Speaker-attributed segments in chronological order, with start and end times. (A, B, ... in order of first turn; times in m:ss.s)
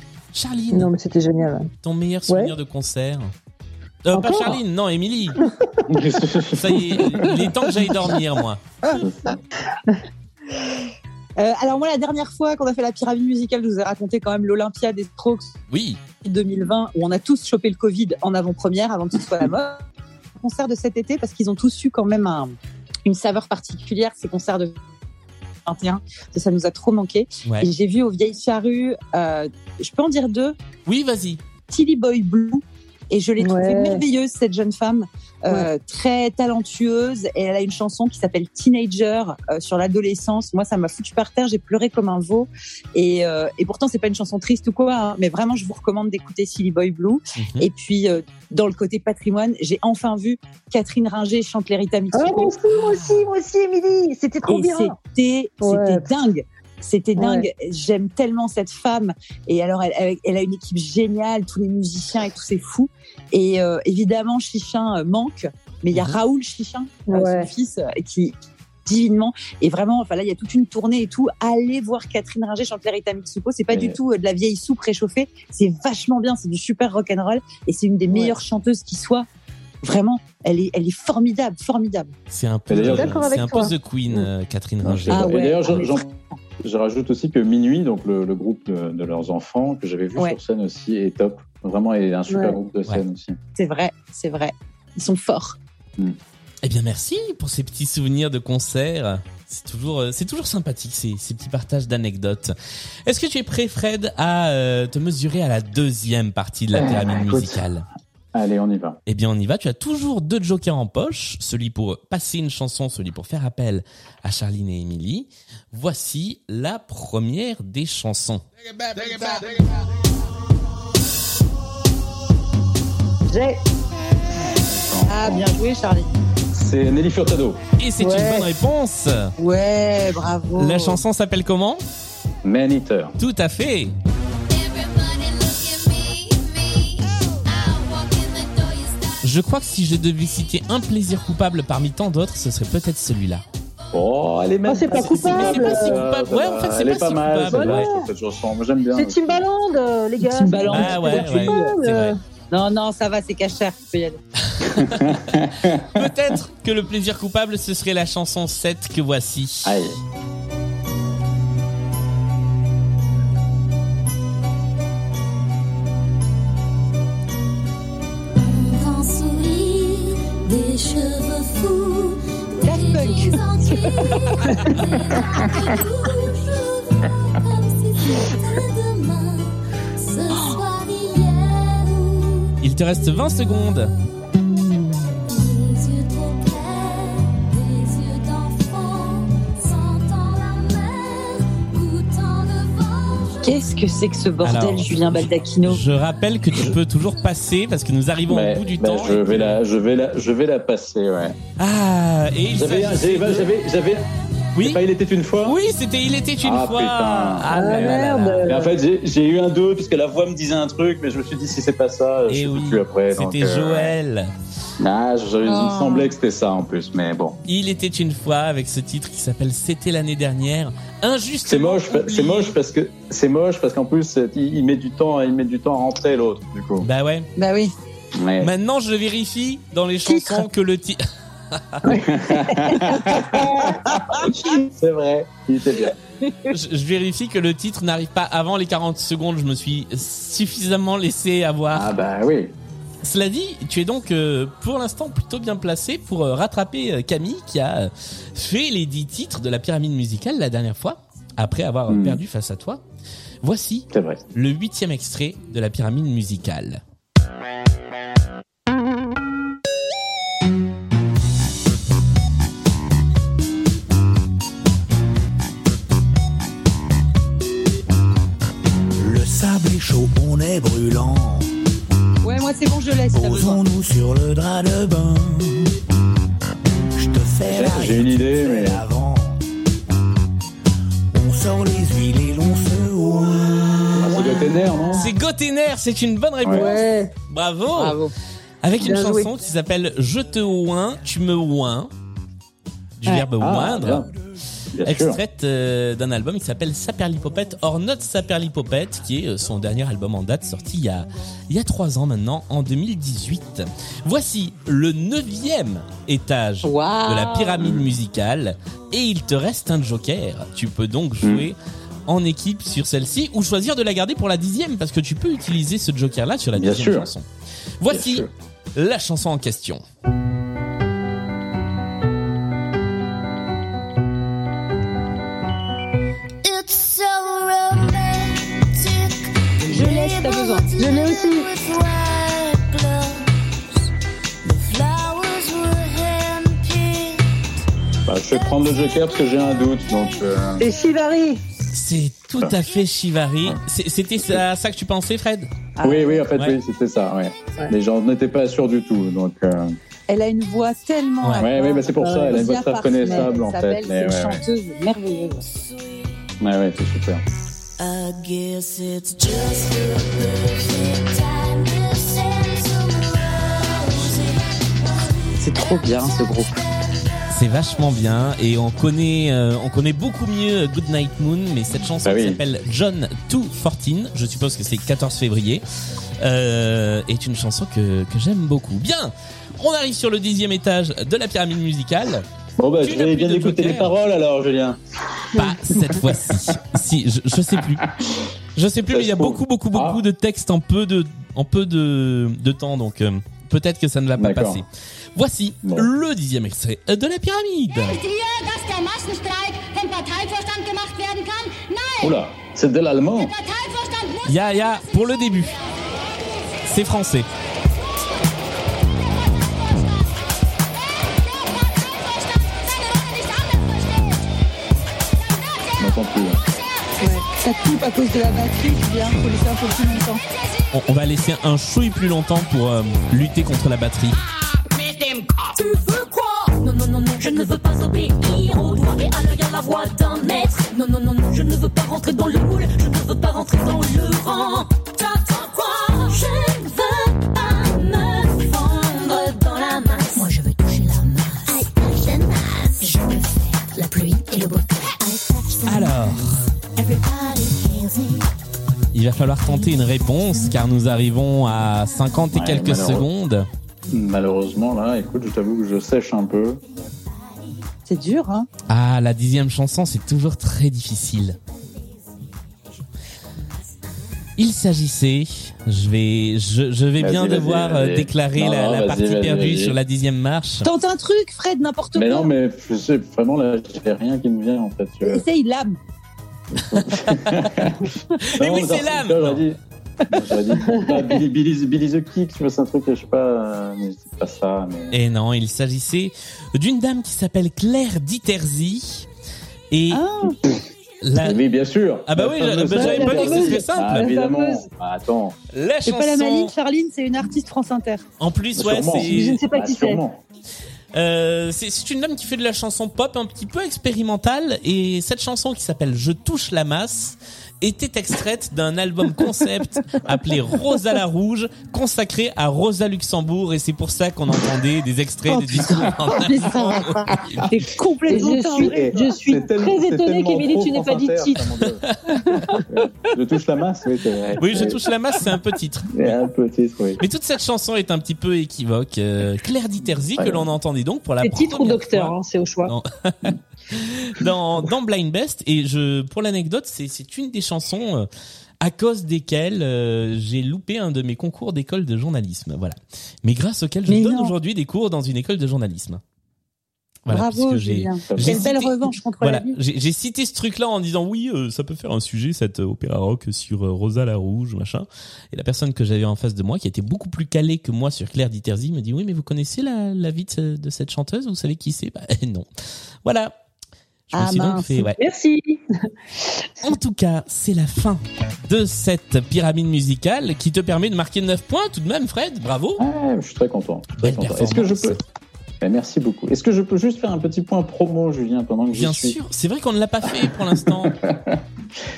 0:00.3-0:00.9 A
0:00.7-0:01.7 B
0:01.8-0:03.3 A
0:02.3-0:02.5 B
0:04.0-0:05.4 A
0:04.1-0:04.6 B
0:05.9-0:07.4 C
0:06.5-0:08.8 A
0:08.9-0:09.4 C
0:11.4-0:15.5 D
0:15.7-0:16.0 A
0:16.2-0:19.8 D
0:20.4-0:24.8 D
0:25.6-0:30.6 D
0:30.8-0:31.4 A
0:31.7-0:52.5 D
0:33.4-0:34.0 B
0:47.4-0:47.7 A
0:52.1-0:55.0 B
0:52.8-0:53.2 A
0:54.5-1:19.3 D
0:55.6-0:56.1 B
0:57.2-0:57.5 B
1:07.1-1:07.5 B
1:13.7-1:14.0 C
1:19.8-1:22.1 D
1:22.3-1:25.3 A
1:22.7-1:23.4 C
1:22.9-1:24.3 B
1:24.8-1:33.4 C
1:25.1-1:25.9 D
1:32.3-1:32.6 B
1:33.6-1:35.6 D
1:36.6-1:42.5 A
1:43.0-1:47.8 A
1:46.7-1:47.6 C
1:48.3-1:49.0 C
1:49.1-1:58.4 A
1:59.0-1:59.4 D
2:03.3-2:03.6 B
2:04.5-2:05.5 C
2:05.1-2:06.1 D
2:06.5-2:07.6 C
2:07.8-2:09.3 A
2:08.0-2:08.5 B
2:09.4-2:11.0 D
2:10.6-2:11.8 A
2:12.4-2:13.1 C
2:13.2-2:13.9 A
2:14.7-2:18.9 E
2:19.2-2:23.4 A
2:23.9-2:29.4 C
2:24.6-2:26.0 B
2:25.2-2:27.9 A
2:27.5-2:28.1 B
2:28.9-2:32.2 B
2:30.2-2:30.9 C
2:30.4-2:31.7 D
2:30.7-2:32.2 A
2:32.5-2:34.2 D
2:34.6-2:39.8 A
2:34.8-2:36.1 C
2:39.6-2:40.0 C
2:48.3-3:03.4 E
2:52.6-2:54.0 D
3:02.6-3:03.9 A
3:05.3-3:13.6 E
3:13.4-3:15.8 D
3:14.4-3:19.6 A
3:18.3-3:21.4 C
3:21.6-3:23.5 A
3:22.5-3:24.0 C
3:24.5-3:24.8 A
3:24.6-3:25.6 C
3:25.4-3:28.5 A
3:26.4-3:33.9 C
3:27.5-3:28.7 B
3:32.3-3:34.3 A
3:34.8-3:37.4 C
3:35.4-3:36.1 D
3:37.5-3:42.6 A
3:41.4-3:46.9 C
3:46.8-3:47.3 A
3:47.4-3:47.7 D
3:48.2-3:48.5 C
3:48.4-3:51.0 A
3:50.0-3:50.4 D
3:51.5-3:51.8 A
3:51.8-3:53.4 B
3:52.1-3:56.0 C
3:56.2-3:56.5 D
3:56.5-4:01.9 A
4:01.7-4:02.5 C
4:03.0-4:12.8 A
4:11.9-4:12.2 C
4:13.4-4:16.8 A
4:13.9-4:14.2 C
4:29.0-4:31.5 F
4:32.2-4:33.6 D
4:33.2-4:35.7 F
4:36.9-4:39.4 F
4:37.4-4:38.8 C
4:41.1-4:44.2 F
4:44.0-4:45.1 C
4:44.9-4:48.0 A
4:46.4-4:46.7 C
4:46.5-4:47.1 B
4:47.7-4:48.1 D
4:48.6-4:51.9 A
4:48.8-4:49.3 B
4:53.0-4:54.1 A
4:53.4-4:54.1 C
4:54.7-4:55.2 C
4:54.8-5:17.2 A
5:06.6-5:07.6 D
5:07.6-5:07.9 C
5:11.2-5:11.5 C
5:16.6-5:17.1 C
5:17.8-5:19.8 A
5:17.9-5:18.3 C
5:26.4-5:33.3 E
5:29.6-5:30.8 D
5:30.6-5:31.5 B
5:34.4-5:37.2 E
5:38.0-5:40.7 C
5:38.4-5:40.9 E
5:40.6-5:41.4 B
5:41.7-5:45.5 A
5:45.8-5:46.2 D
5:45.8-5:49.8 C
5:50.1-5:55.4 D
5:51.2-5:51.5 A
5:51.4-5:54.4 C
5:52.0-5:52.4 B
5:53.0-5:53.3 B
5:56.4-5:57.2 C
5:57.8-6:06.1 E
6:03.9-6:04.3 A
6:05.4-6:06.5 D
6:07.3-6:15.6 A
6:12.0-6:12.4 C
6:16.2-6:22.3 A
6:22.6-6:24.8 C
6:22.8-6:24.0 A
6:25.3-6:27.9 A
6:27.6-6:28.2 C
6:28.6-6:38.0 A
6:28.9-6:30.0 C
6:34.2-6:34.6 C
6:35.6-6:35.9 C
6:38.0-6:42.0 G
6:42.0-6:43.4 C
6:43.5-6:44.2 G
6:44.2-6:45.6 A
6:46.6-6:47.3 A
6:55.8-6:56.4 C
6:57.0-7:00.2 D
7:00.7-7:04.2 A
7:05.1-7:26.1 E
7:25.6-7:26.4 A
7:26.8-7:28.2 E
7:28.9-7:33.5 A
7:32.3-7:33.1 C
7:33.9-7:36.6 C
7:37.9-7:38.5 D
7:38.7-7:41.4 A
7:44.4-7:50.7 A
7:47.0-7:49.8 C
7:50.6-7:52.3 D
7:51.9-7:55.2 C
7:55.0-7:55.8 D
7:56.6-7:59.6 C
7:56.7-7:57.7 A
7:58.2-7:59.4 A
8:00.1-8:04.9 C
8:04.9-8:09.1 A
8:09.7-8:10.0 A
8:09.9-8:10.4 D
8:11.0-8:11.4 A
8:11.2-8:15.4 C
8:12.0-8:14.1 A
8:12.7-8:13.6 B
8:13.2-8:14.6 D
8:15.5-8:16.5 A
8:15.8-8:18.0 D
8:18.2-8:19.4 A
8:18.6-8:20.2 C
8:18.9-8:20.0 B
8:20.9-8:37.5 A
8:35.3-8:39.0 D
8:38.1-8:42.6 B
8:38.5-8:41.8 C
8:42.7-8:44.8 C
8:44.4-8:46.2 A
8:45.9-8:47.0 C
8:47.0-8:58.1 A
8:50.2-8:50.5 C
8:51.2-8:52.7 B
8:58.6-9:06.0 A
9:03.9-9:04.3 D
9:07.0-9:22.5 A
9:07.1-9:09.6 D
9:08.0-9:08.5 C
9:23.0-9:23.3 A
9:24.1-9:25.0 A
9:24.1-9:24.9 D
9:25.0-9:25.6 B
9:26.6-9:32.8 A
9:32.8-9:35.0 C
9:34.0-9:35.0 A
9:35.6-9:39.2 C
9:38.7-9:40.9 A
9:40.1-9:41.4 C